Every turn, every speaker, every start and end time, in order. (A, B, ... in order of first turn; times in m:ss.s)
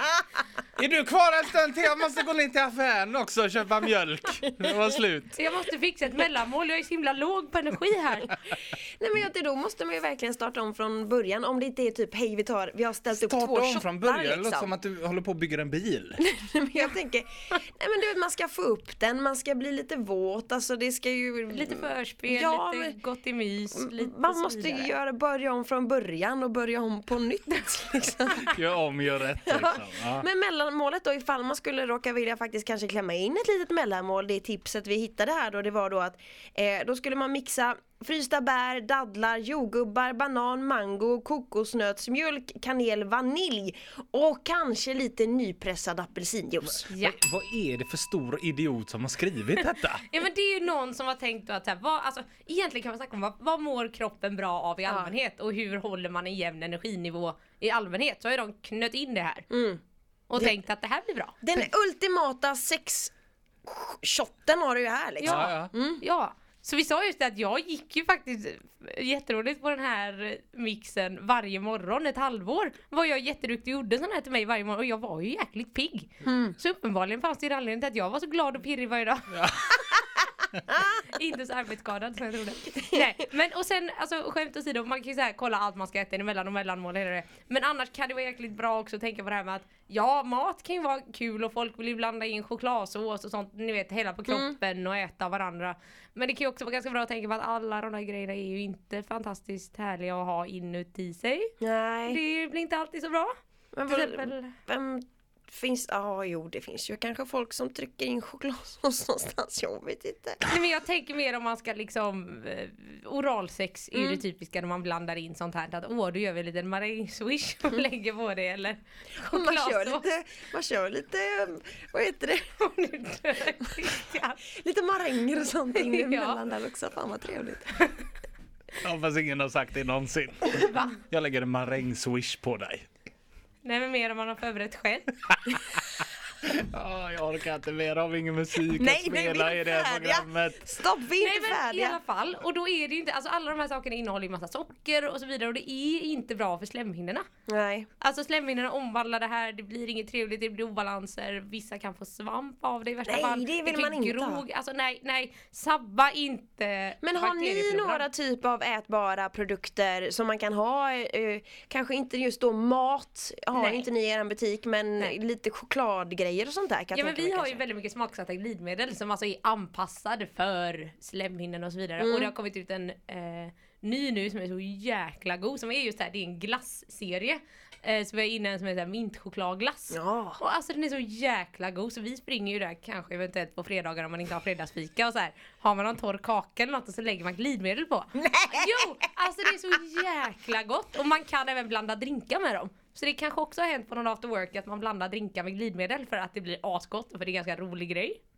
0:00.8-0:05.4 A
0:05.4-0:08.3 B
0:09.0-0:14.7 C
0:13.1-0:16.2 A
0:16.2-0:23.0 C
0:21.5-0:24.9 B
0:23.7-0:28.5 C
0:28.5-0:30.3 A
0:29.4-0:46.9 C
0:46.6-0:50.1 A
0:46.9-0:47.2 B
0:49.9-0:59.5 B
0:54.9-0:55.2 C
0:59.5-0:59.8 C
1:00.3-1:01.7 B
1:01.4-1:03.1 C
1:03.7-1:06.0 C
1:05.2-1:19.8 B
1:05.2-1:05.7 A
1:16.2-1:16.6 C
1:19.3-1:19.9 A
1:20.9-1:41.5 B
1:34.3-1:34.6 C
1:41.6-1:42.2 C
1:42.1-1:43.3 B
1:43.7-1:50.4 C
1:43.9-1:44.5 B
1:50.4-2:00.0 B
1:53.9-1:54.2 C
1:59.2-2:02.5 C
2:02.6-2:04.4 B
2:04.6-2:07.8 C
2:05.8-2:06.4 B
2:08.8-2:12.9 A
2:10.6-2:11.0 B
2:13.6-2:15.1 B
2:16.4-2:20.6 A
2:18.8-2:22.0 C
2:21.2-2:27.2 B
2:27.5-2:27.9 C
2:28.0-2:38.1 B
2:33.0-2:34.4 C
2:37.0-2:47.6 C
2:43.5-2:43.9 B
2:46.9-3:18.2 B
2:52.0-2:52.3 C
2:59.9-3:00.4 C
3:08.2-3:09.1 C